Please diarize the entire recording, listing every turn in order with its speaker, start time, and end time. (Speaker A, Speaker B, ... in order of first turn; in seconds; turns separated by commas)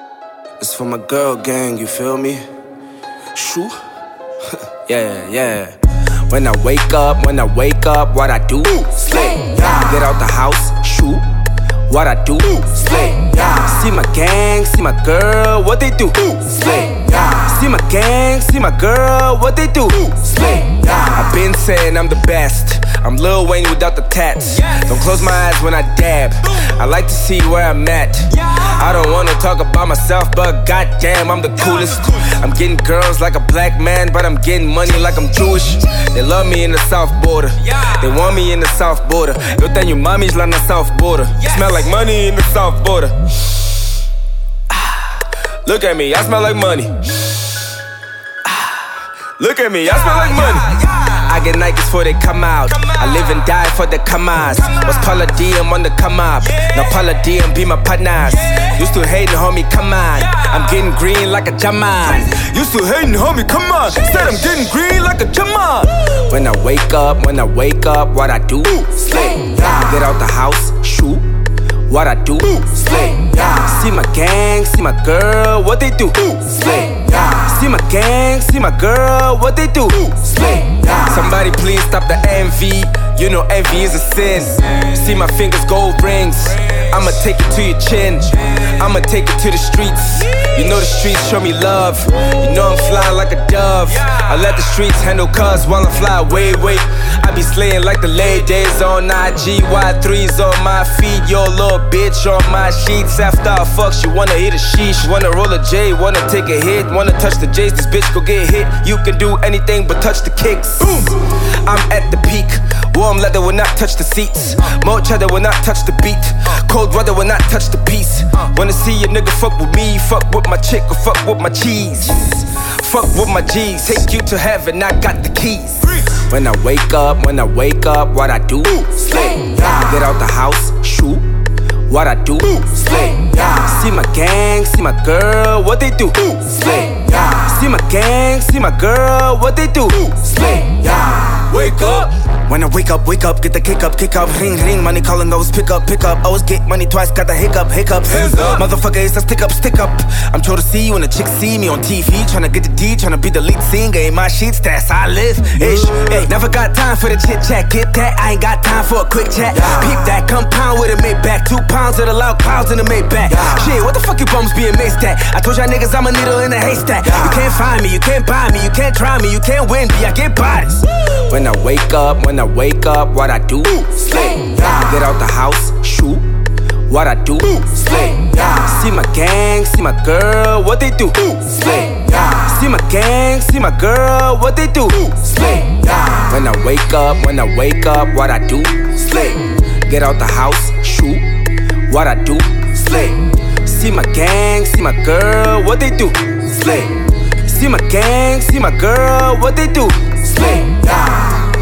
Speaker A: 0.6-2.4, Speaker A: 3.3-3.8, Speaker A: 4.8-11.3, Speaker A: 11.9-43.6, Speaker A: 44.7-47.0, Speaker A: 49.3-71.3, Speaker A: 71.9-131.3, Speaker A: 131.9-176.3, Speaker A: 176.9-191.2, Speaker A: 191.9-201.2